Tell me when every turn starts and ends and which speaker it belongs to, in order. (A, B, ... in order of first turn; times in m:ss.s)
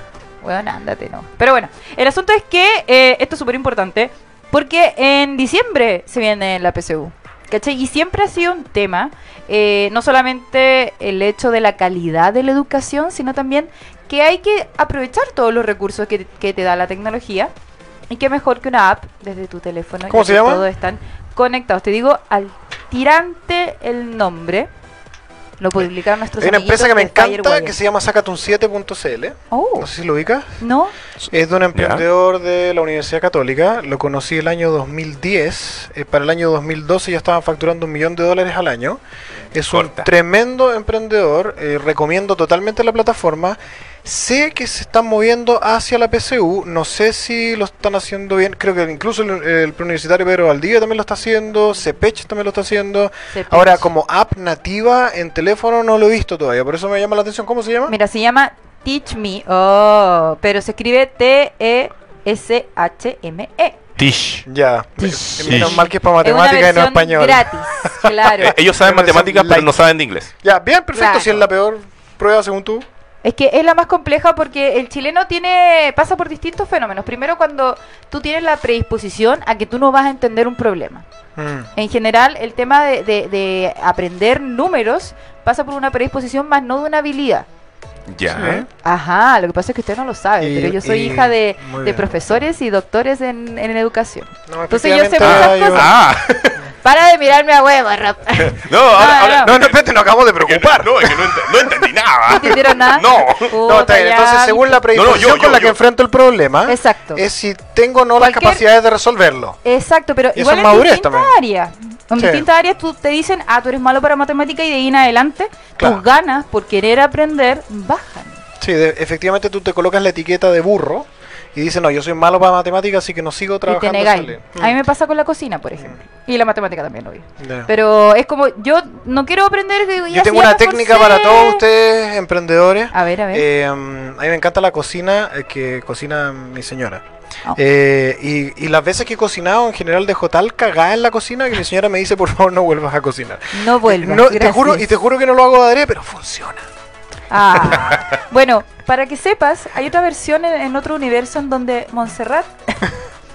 0:00.4-0:17.5 A
0:18.1-0:24.7 A
0:20.1-0:20.6 B
0:25.6-0:27.8 A
0:26.4-0:30.6 B
0:29.5-0:29.9 A
0:30.6-0:30.9 A
0:31.2-0:39.0 B
0:31.7-0:32.0 C
0:39.5-0:57.9 B
0:39.7-0:40.1 C
0:53.3-0:53.9 A
0:57.9-1:03.8 A
1:04.0-1:04.4 C
1:04.5-1:09.7 B
1:05.0-1:08.6 A
1:05.4-1:05.8 C
1:08.4-1:10.3 C
1:10.4-1:12.8 B
1:10.9-1:11.4 A
1:13.2-1:21.0 A
1:21.4-1:21.7 B
1:21.7-1:27.5 A
1:28.1-1:28.6 C
1:28.3-1:28.7 B
1:28.8-1:35.9 A
1:30.4-1:32.1 B
1:34.5-1:36.0 B
1:35.2-1:36.6 C
1:36.8-1:39.5 A
1:38.4-1:39.9 C
1:39.4-1:41.7 B
1:40.4-1:43.5 C
1:42.3-1:44.8 A
1:43.6-1:49.6 B
1:44.9-1:45.8 C
1:46.6-1:47.2 A
1:48.2-1:48.6 A
1:49.6-1:58.4 A
1:50.3-1:51.3 B
1:52.2-1:52.4 B
1:58.6-2:04.8 B
2:03.6-2:11.6 A
2:07.4-2:07.7 B
2:10.1-2:17.0 B
2:12.9-2:13.4 A
2:17.6-2:26.6 B
2:23.5-2:24.8 A
2:27.3-2:32.9 A